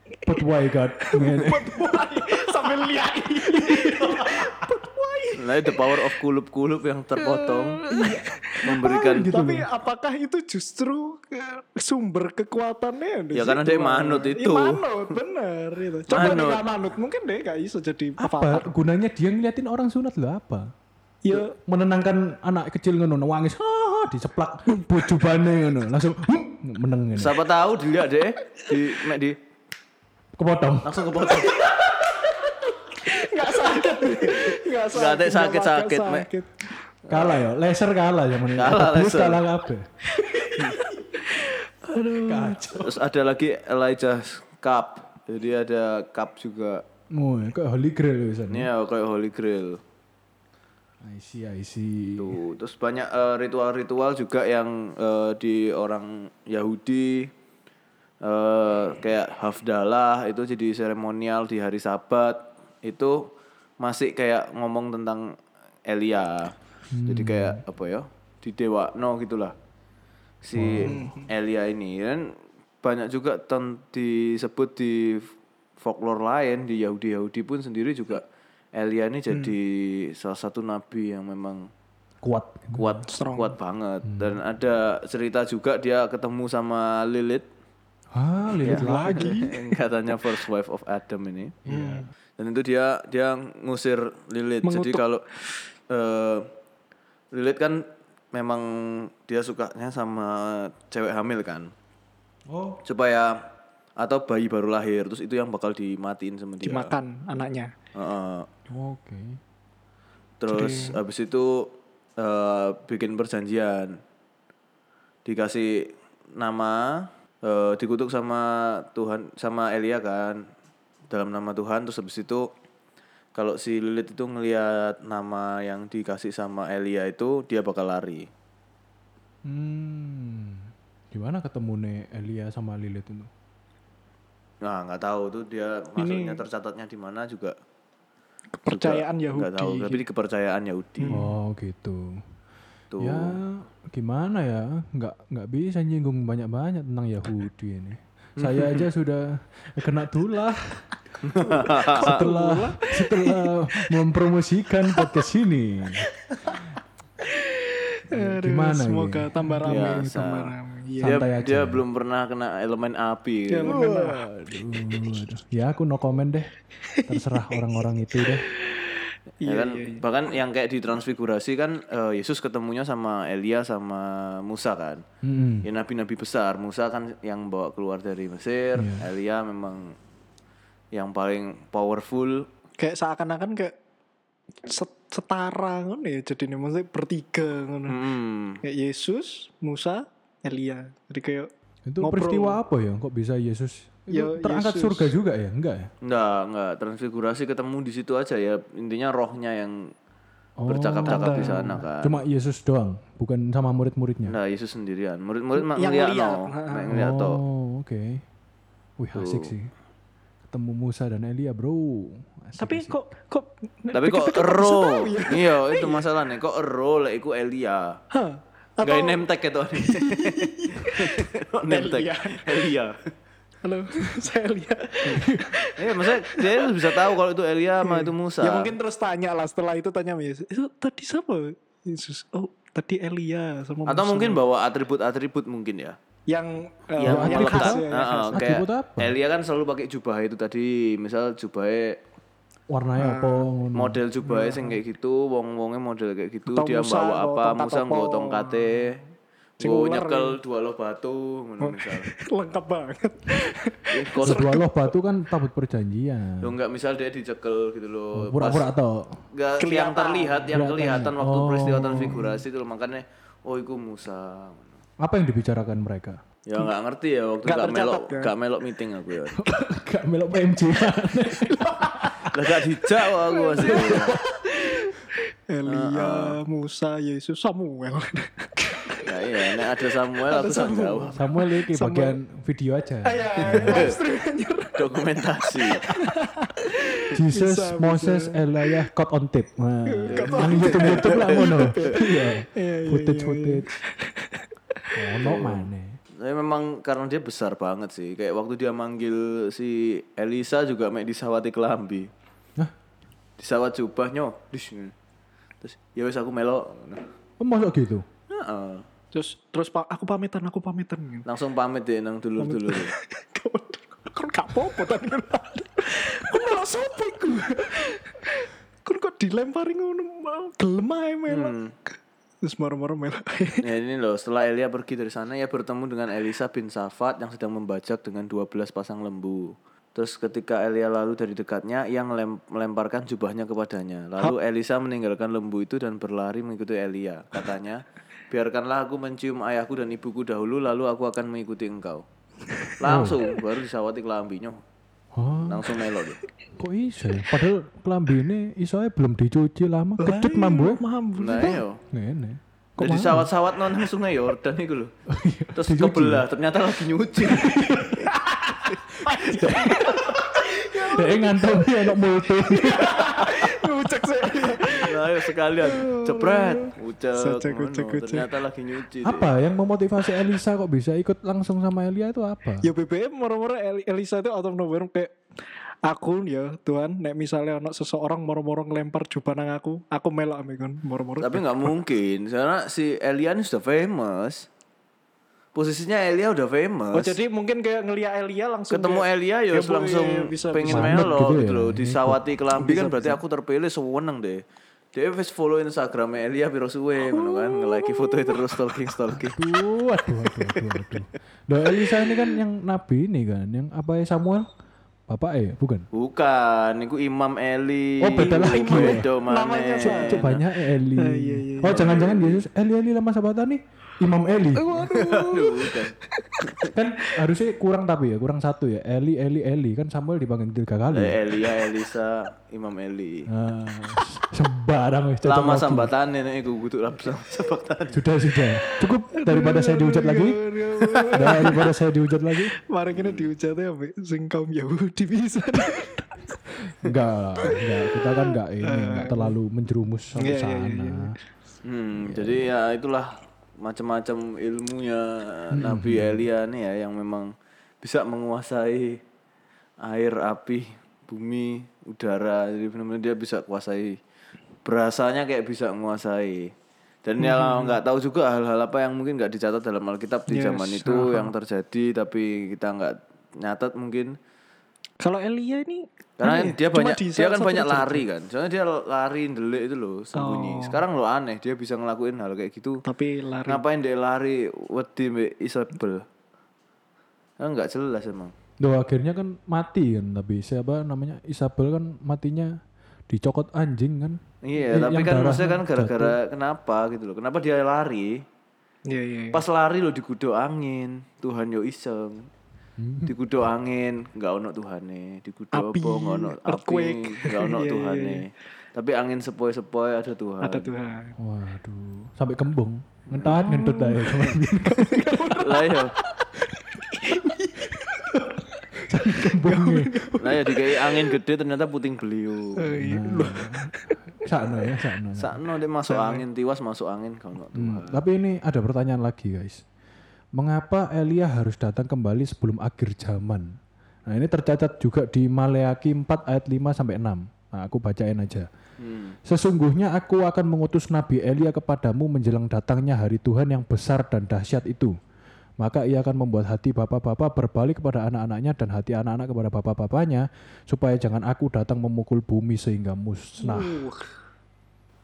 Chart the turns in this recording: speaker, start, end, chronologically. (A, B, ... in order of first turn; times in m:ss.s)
0:00.3-0:02.3 A
0:01.0-0:06.2 B
0:03.7-0:04.5 A
0:05.3-0:07.8 C
0:07.2-0:08.7 B
0:07.9-0:09.7 A
0:08.6-0:09.3 C
0:09.2-0:18.7 B
0:13.3-0:15.1 C
0:16.1-0:16.6 C
0:18.2-0:20.7 A
0:21.2-0:21.6 B
0:21.6-0:27.4 A
0:27.2-0:29.4 C
0:30.4-0:31.0 A
0:30.8-0:31.7 C
0:31.4-0:36.7 B
0:34.0-0:36.3 C
0:37.1-0:37.4 C
0:37.1-0:39.9 A
0:38.6-0:39.4 C
0:40.1-0:42.8 B
0:42.2-0:43.0 A
0:42.8-0:46.8 C
0:47.1-0:48.7 A
0:48.5-0:49.8 C
0:51.0-0:52.4 A
0:52.2-0:57.3 C
0:58.2-1:03.3 C
1:03.8-1:05.3 C
1:05.9-1:06.5 C
1:06.9-1:07.6 A
1:07.1-1:09.5 C
1:10.4-1:18.2 C
1:10.5-1:11.0 A
1:10.8-1:11.3 B
1:18.8-1:21.7 C
1:22.2-1:23.0 A
1:22.7-1:27.4 C
1:23.1-1:23.5 B
1:24.1-1:24.4 A
1:28.1-1:29.5 A
1:28.6-1:29.6 B
1:28.6-1:31.6 C
1:31.6-1:32.1 A
1:31.7-1:32.0 B
1:32.4-1:35.2 C
1:34.6-1:35.4 B
1:35.9-1:36.5 C
1:37.3-1:41.7 C
1:42.5-1:42.8 A
1:42.8-1:43.5 C
1:44.0-1:47.0 C
1:46.6-1:47.7 B
1:48.0-1:48.5 C
1:48.7-1:49.4 A
1:50.4-1:54.0 C
1:50.5-1:51.0 B
1:55.2-2:00.4 C
2:01.1-2:02.5 C
2:03.4-2:08.3 C
2:09.5-2:13.3 A
2:14.6-2:17.5 C
2:16.0-2:16.4 B
2:18.6-2:20.0 B
2:18.7-2:21.2 C
2:21.0-2:21.3 B
2:21.1-2:22.2 A
2:22.9-2:23.4 C
2:23.0-2:30.9 A
2:28.4-2:28.9 C
2:31.2-2:32.2 C
2:31.7-2:33.9 B
2:32.0-2:36.1 A
2:37.3-2:41.2 B
2:38.1-2:40.0 A
2:39.7-2:43.8 C
2:41.0-2:41.8 A
2:43.5-2:44.3 B
2:43.6-2:46.5 A
2:46.9-2:47.6 B
2:47.0-2:48.5 A
2:48.7-2:50.0 B
2:49.4-2:55.0 C
2:55.2-2:55.7 A
2:55.6-3:00.0 C
2:58.8-2:59.1 A
3:00.9-3:02.5 C
3:02.8-3:03.7 B
3:04.6-3:08.0 B
3:07.9-3:08.6 C
3:08.6-3:11.5 B
3:11.9-3:15.9 A
3:12.0-3:12.6 B
3:14.1-3:15.1 B
3:16.0-3:19.9 C
3:20.6-3:24.4 A
3:20.7-3:22.2 C
3:21.1-3:21.8 B
3:24.3-3:27.4 C
3:25.6-3:26.9 B
3:26.9-3:28.2 A
3:29.0-3:29.7 A
3:29.2-3:29.5 C
3:30.5-3:33.0 A
3:32.6-3:36.1 B
3:33.9-3:38.0 C
3:38.1-3:39.2 B
3:38.8-3:43.0 C
3:39.8-3:42.7 B
3:43.6-3:46.7 B
3:45.8-3:48.7 C
3:47.8-3:54.4 B
3:53.9-3:56.0 C
3:56.3-3:58.5 B
3:57.0-4:02.0 C
3:57.0-3:59.2 A
4:02.7-4:04.0 A
4:03.0-4:03.5 B
4:03.8-4:09.0 C
4:04.2-4:04.8 B
4:06.5-4:08.8 B
4:09.6-4:12.1 C
4:09.6-4:10.4 B
4:11.6-4:14.9 B
4:13.9-4:14.5 C
4:14.2-4:16.5 A
4:16.4-4:18.7 C
4:18.2-4:19.2 A
4:19.3-4:24.7 C
4:19.6-4:20.4 B
4:20.5-4:22.4 A
4:25.0-4:26.2 A
4:26.5-4:29.4 C
4:27.4-4:28.3 B
4:29.4-4:32.3 A
4:31.5-4:32.1 B
4:32.3-4:34.2 C
4:33.3-4:39.6 B
4:33.6-4:34.2 A
4:35.6-4:36.4 C
4:39.0-4:41.2 C
4:40.3-4:42.2 B
4:41.2-4:43.9 A
4:43.0-4:48.9 B
4:43.4-4:44.0 C
4:44.8-4:45.9 C
4:47.1-4:53.7 A
4:49.9-4:55.0 B
4:50.1-4:51.5 C
4:54.9-4:56.0 A
4:55.2-5:02.1 C
5:03.4-5:04.9 C
5:05.6-5:07.1 C
5:07.4-5:08.0 A
5:08.3-5:08.8 C
5:09.1-5:11.3 B
5:11.2-5:12.9 C
5:12.4-5:21.6 B
5:21.3-5:21.7 C
5:22.4-5:23.7 B
5:23.6-5:42.0 C
5:42.8-5:44.6 C
5:42.8-5:43.2 A
5:45.2-5:45.8 A
5:45.4-5:46.2 C
5:46.6-5:50.8 A
5:50.0-5:51.6 B
5:51.2-5:51.8 C
5:51.8-5:53.3 A
5:52.8-5:54.9 C
5:55.1-5:56.2 A
5:55.5-5:58.1 C
5:57.2-5:58.1 A
5:58.1-5:58.6 B
5:59.0-6:00.2 A
5:59.0-6:00.5 C
5:59.2-6:08.3 B
6:00.7-6:03.1 A
6:03.2-6:03.5 C
6:04.6-6:09.3 C
6:09.0-6:12.7 A
6:12.6-6:15.2 B
6:15.8-6:21.8 B
6:21.2-6:24.5 C
6:25.6-6:27.2 C
6:26.9-6:31.2 B
6:28.7-6:34.4 C
6:30.7-6:32.2 A
6:32.6-6:33.2 B
6:34.9-6:39.4 C
6:37.1-6:38.4 B
6:39.2-6:44.5 A
6:45.1-6:45.9 A
6:45.9-6:50.4 C
6:48.0-6:49.0 A
6:48.2-6:50.4 B
6:49.8-6:54.8 A
6:50.9-6:51.8 B
6:51.6-6:52.5 C
6:54.6-6:56.5 B
6:54.8-6:56.7 C
6:56.7-7:01.2 A
7:00.9-7:03.3 C
7:03.3-7:05.9 A
7:05.2-7:08.0 C
7:07.9-7:10.4 A
7:09.2-7:11.7 B
7:10.9-7:11.2 C
7:11.1-7:12.5 A
7:12.6-7:16.4 B
7:12.9-7:13.3 C
7:16.8-7:21.2 A
7:17.4-7:19.4 B
7:20.2-7:21.1 B
7:21.6-7:29.0 C
7:22.1-7:22.4 A
7:25.5-7:26.2 A
7:29.8-7:34.0 C
7:34.6-7:36.5 C
7:37.0-7:44.2 C
7:37.2-7:37.8 B
7:40.3-7:41.3 B
7:45.0-7:48.1 B
7:46.2-7:52.8 C
7:50.2-7:50.8 B
7:52.8-7:53.6 B
7:53.5-7:56.1 C
7:57.4-7:58.3 C
7:58.6-8:02.6 A
8:03.1-8:04.2 A
8:04.4-8:08.2 C
8:04.7-8:06.2 A
8:08.9-8:09.4 B
8:09.3-8:12.3 C
8:12.8-8:13.1 A
8:13.0-8:20.7 C
8:15.5-8:18.2 B
8:20.4-8:21.2 B
8:21.2-8:25.1 A
8:23.1-8:23.5 C
8:23.3-8:28.6 B
8:25.0-8:26.0 C
8:28.8-8:30.2 A
8:29.2-8:31.2 B
8:30.2-8:32.7 C
8:32.6-8:34.8 B
8:32.7-8:35.4 A
8:35.2-8:38.0 C
8:35.9-8:36.2 B
8:37.5-8:39.6 A
8:40.4-8:48.5 A
8:48.8-8:49.2 C
8:49.2-8:55.0 A
8:55.6-9:03.8 A
9:03.4-9:04.1 B